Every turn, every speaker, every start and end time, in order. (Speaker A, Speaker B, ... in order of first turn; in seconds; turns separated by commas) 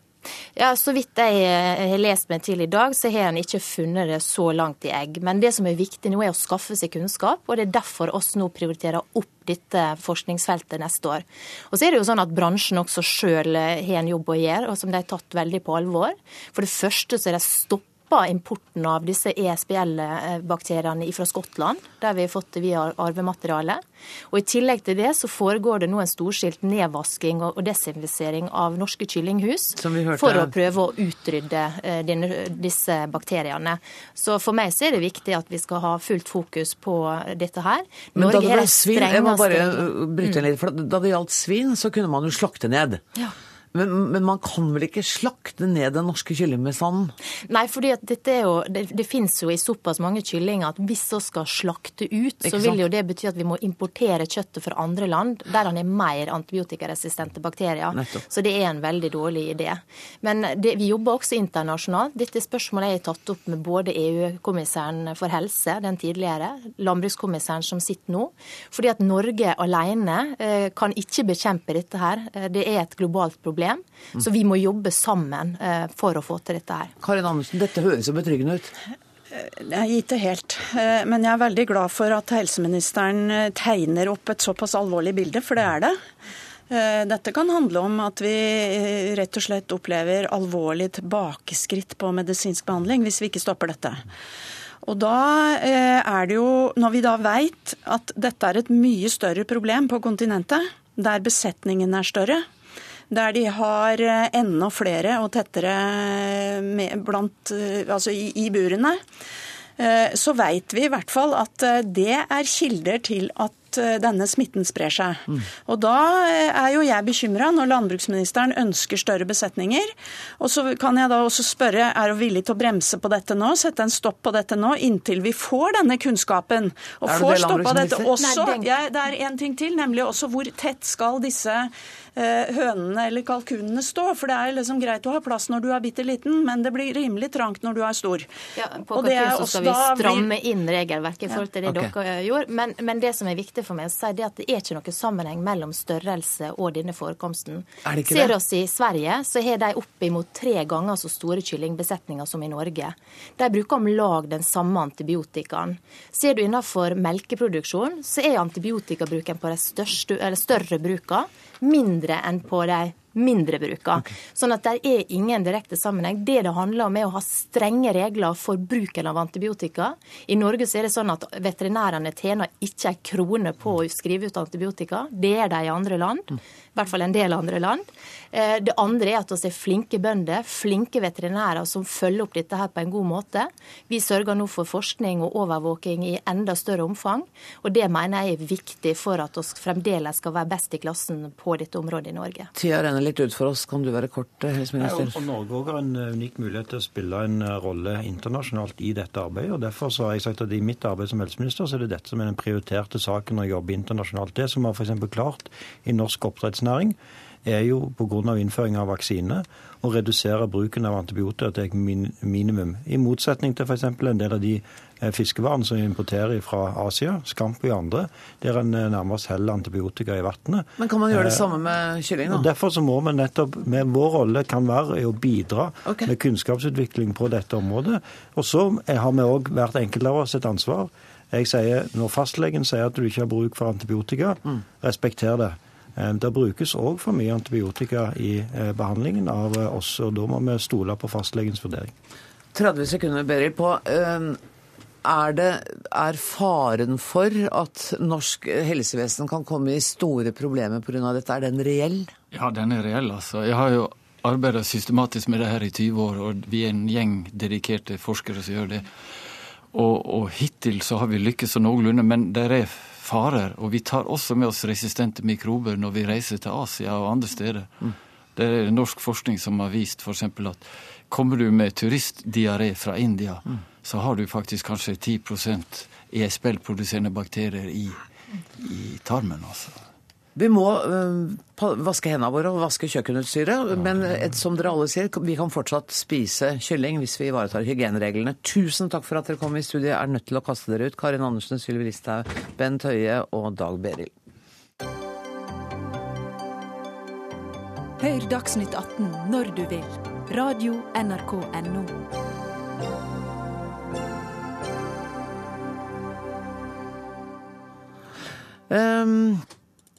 Speaker A: 0.6-40.4, Speaker B: 29.8-30.6, Speaker B: 38.1-43.2, Speaker B: 43.7-47.1, Speaker A: 47.5-76.9, Speaker B: 52.4-52.8, Speaker B: 57.9-58.2, Speaker B: 77.0-78.7, Speaker C: 79.3-86.0, Speaker C: 86.7-94.0, Speaker C: 94.8-102.5, Speaker C: 103.1-109.0, Speaker C: 109.8-138.3, Speaker B: 127.0-128.1, Speaker A: 128.2-128.6, Speaker A: 138.6-192.5, Speaker C: 138.9-140.3, Speaker B: 141.7-141.9, Speaker B: 147.8-148.3, Speaker B: 192.6-195.2, Speaker D: 194.8-221.5, Speaker B: 220.8-222.5, Speaker D: 222.3-241.9, Speaker B: 225.8-226.1, Speaker B: 242.5-244.4, Speaker B: 245.0-252.1, Speaker E: 252.3-258.9, Speaker E: 259.7-267.8, Speaker E: 268.4-278.0, Speaker E: 278.6-279.8, Speaker B: 280.4-294.1, Speaker F: 298.0-302.0, Speaker B: 308.7-309.4